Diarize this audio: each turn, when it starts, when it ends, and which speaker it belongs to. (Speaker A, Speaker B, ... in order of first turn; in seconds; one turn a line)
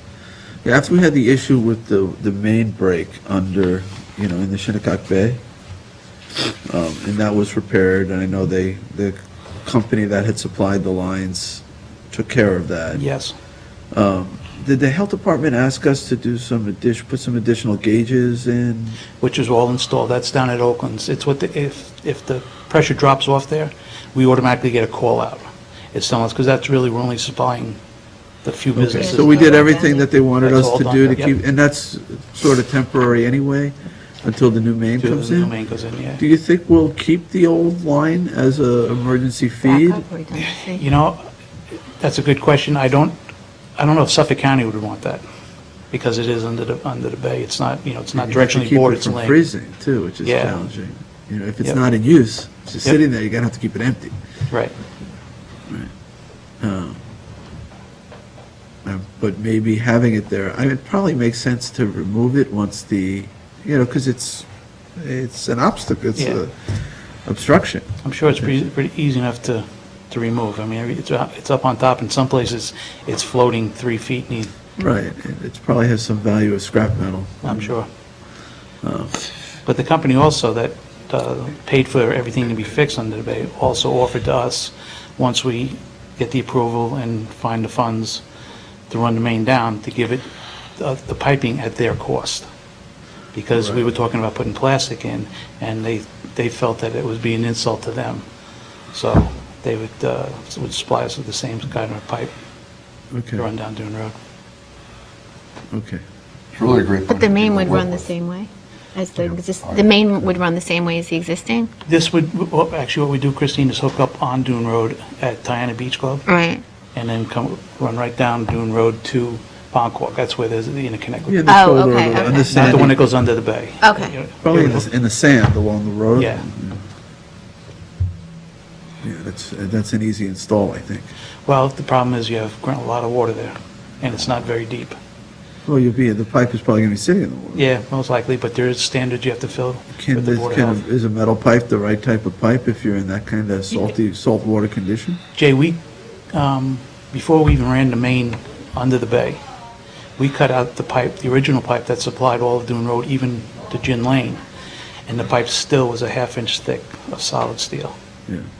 Speaker A: 0.6-5.4
Speaker A: 6.7-13.0
Speaker B: 12.9-13.3
Speaker A: 13.9-19.0
Speaker B: 19.2-27.8
Speaker B: 28.4-29.6
Speaker A: 28.8-35.5
Speaker C: 28.9-30.1
Speaker B: 30.4-31.3
Speaker B: 35.0-36.2
Speaker A: 36.2-40.0
Speaker C: 39.6-40.8
Speaker B: 40.4-41.2
Speaker B: 42.0-43.1
Speaker B: 43.8-45.2
Speaker B: 45.9-49.4
Speaker A: 48.1-54.1
Speaker B: 50.2-50.6
Speaker A: 56.6-57.0
Speaker A: 58.8-68.6
Speaker B: 68.0-74.5
Speaker A: 74.8-77.7
Speaker B: 77.4-77.9
Speaker A: 78.8-79.2
Speaker B: 79.6-88.2
Speaker B: 88.9-92.5
Speaker B: 93.3-98.2
Speaker B: 98.9-102.3
Speaker A: 103.1-103.5
Speaker B: 103.4-104.2
Speaker A: 105.7-106.0
Speaker D: 106.5-108.1
Speaker C: 107.1-111.7
Speaker D: 109.2-109.9
Speaker B: 111.8-116.2
Speaker C: 116.2-116.6
Speaker B: 116.9-121.5
Speaker A: 121.3-123.0
Speaker C: 121.5-122.9
Speaker B: 122.2-124.9
Speaker C: 123.8-124.2
Speaker A: 124.4-126.8
Speaker B: 126.1-126.4
Speaker A: 129.0-131.1
Speaker B: 131.4-134.9
Speaker A: 135.7-137.7
Speaker B: 137.5-140.8
Speaker A: 139.9-145.2
Speaker B: 145.3-145.8
Speaker B: 146.3-149.4
Speaker B: 150.2-154.4
Speaker B: 155.1-157.9